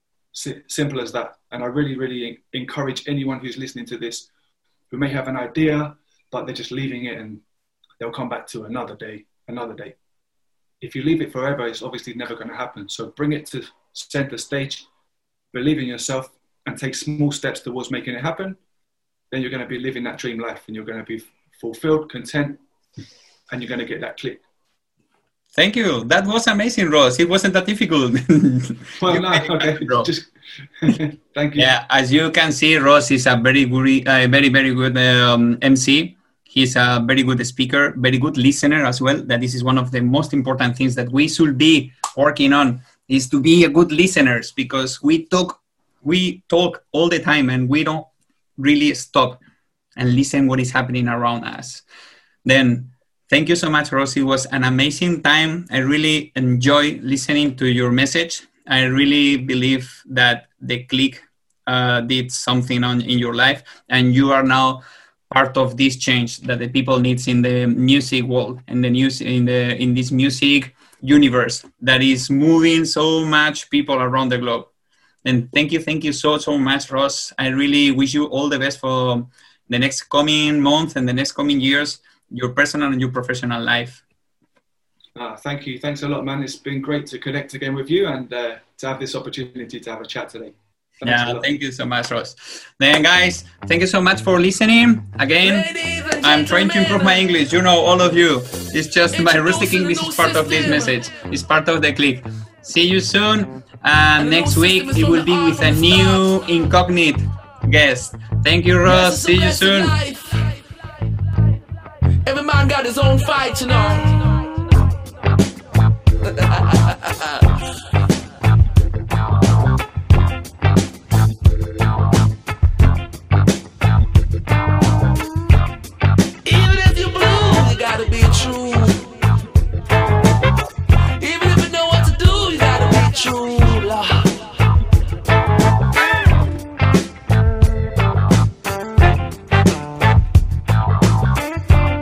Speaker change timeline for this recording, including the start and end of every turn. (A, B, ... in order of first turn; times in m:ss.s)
0:00.3-0:04.3 A
0:04.9-0:07.4 A
0:08.0-0:10.0 A
0:10.8-0:14.9 A
0:15.5-0:18.6 A
0:19.3-0:22.6 A
0:23.5-0:24.4 A
0:25.5-0:30.1 B
0:29.0-0:31.7 A
0:31.6-0:49.4 B
0:50.0-0:51.8 B
0:52.4-1:14.7 B
1:15.2-1:24.0 B
1:25.1-1:31.5 A
1:31.0-1:35.7 B
1:35.4-1:37.2 C
1:36.2-1:49.9 B
1:39.1-1:41.0 C
1:44.2-1:46.4 C
1:48.8-1:50.7 C
1:52.2-1:54.5 C
1:56.2-1:57.6 C
2:06.4-2:09.1 C
2:11.2-2:14.4 C